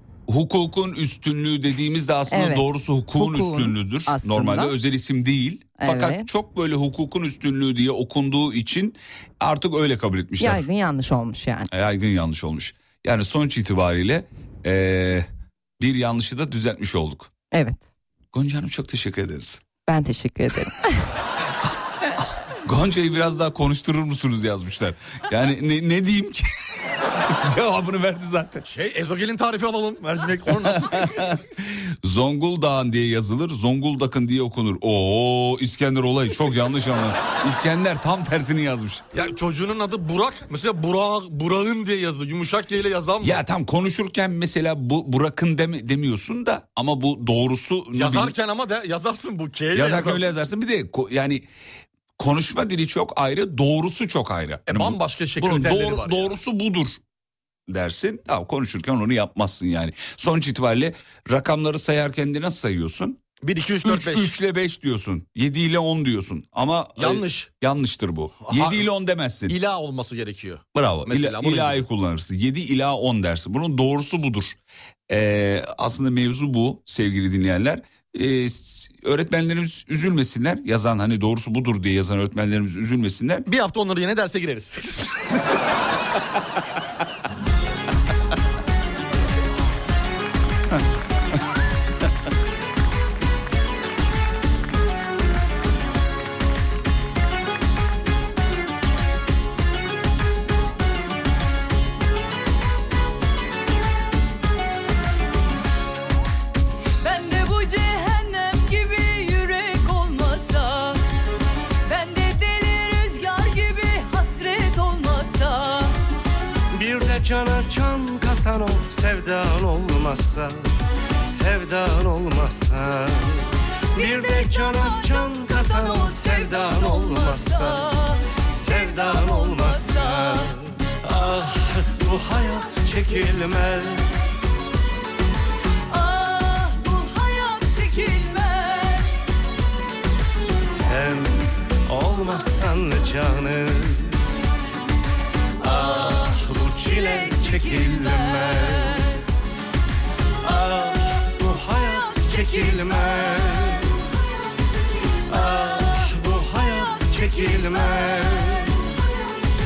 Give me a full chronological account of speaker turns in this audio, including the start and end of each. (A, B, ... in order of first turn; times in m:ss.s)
0:00.3-0:10.7 A
0:02.3-0:04.7 B
0:05.8-0:06.3 B
0:10.4-0:11.7 B
0:11.7-0:15.3 A
0:15.8-0:17.3 A
0:17.5-0:17.8 B
0:18.3-0:19.6 A
0:19.9-0:21.0 B
0:21.6-0:28.6 A
0:28.6-0:31.4 C
0:30.6-0:39.0 A
0:39.1-0:43.4 C
0:43.2-0:48.3 A
0:47.9-0:50.3 C
0:49.7-0:51.5 A
0:52.2-0:57.0 A
0:54.7-0:56.3 C
0:57.7-1:03.2 A
1:03.4-1:04.3 C
1:03.8-1:09.6 A
1:07.0-1:07.5 C
1:08.5-1:08.9 C
1:09.5-1:11.8 C
1:10.7-1:14.6 A
1:15.1-1:23.5 A
1:23.4-1:25.2 C
1:47.0-1:51.0 D
1:51.9-1:55.9 D
1:56.7-2:00.6 E
2:01.3-2:07.8 E
2:07.3-2:08.1 D
2:08.5-2:10.5 E
2:09.5-2:10.4 D
2:11.0-2:14.2 E
2:15.9-2:19.2 D
2:20.6-2:24.2 E
2:25.6-2:29.4 E
2:30.4-2:34.1 E
2:35.3-2:38.8 E